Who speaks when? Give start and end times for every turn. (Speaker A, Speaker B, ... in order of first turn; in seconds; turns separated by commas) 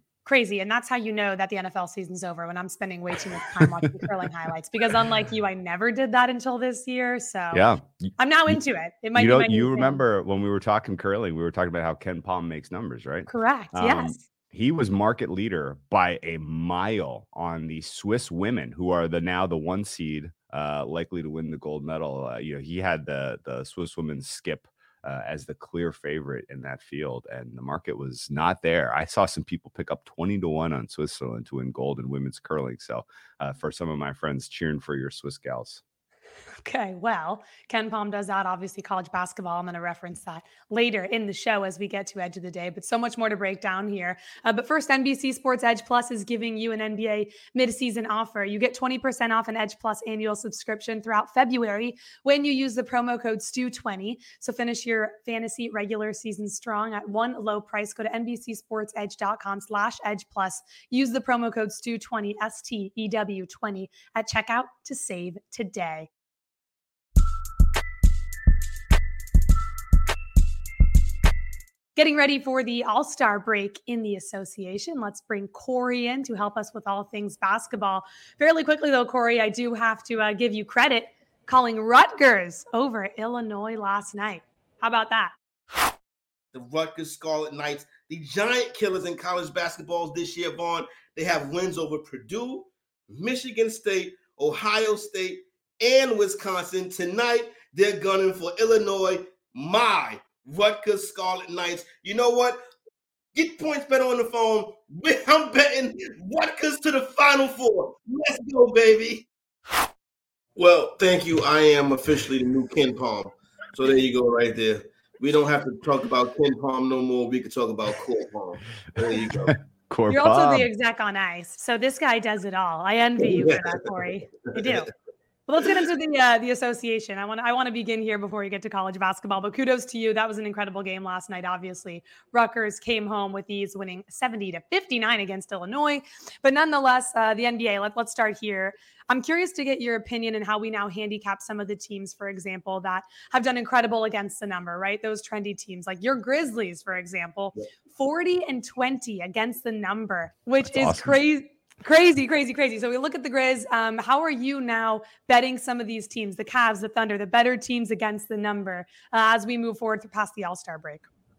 Speaker A: 0.2-7.7, Speaker B: 7.5-8.6, Speaker A: 8.2-10.0, Speaker B: 9.1-35.8, Speaker A: 13.3-14.2, Speaker A: 36.6-66.1, Speaker A: 72.0-85.3, Speaker C: 86.5-102.6, Speaker C: 103.3-109.3, Speaker C: 110.5-119.5, Speaker B: 119.5-120.7, Speaker A: 120.1-124.9, Speaker C: 123.2-123.8, Speaker A: 125.5-161.1, Speaker B: 150.6-151.2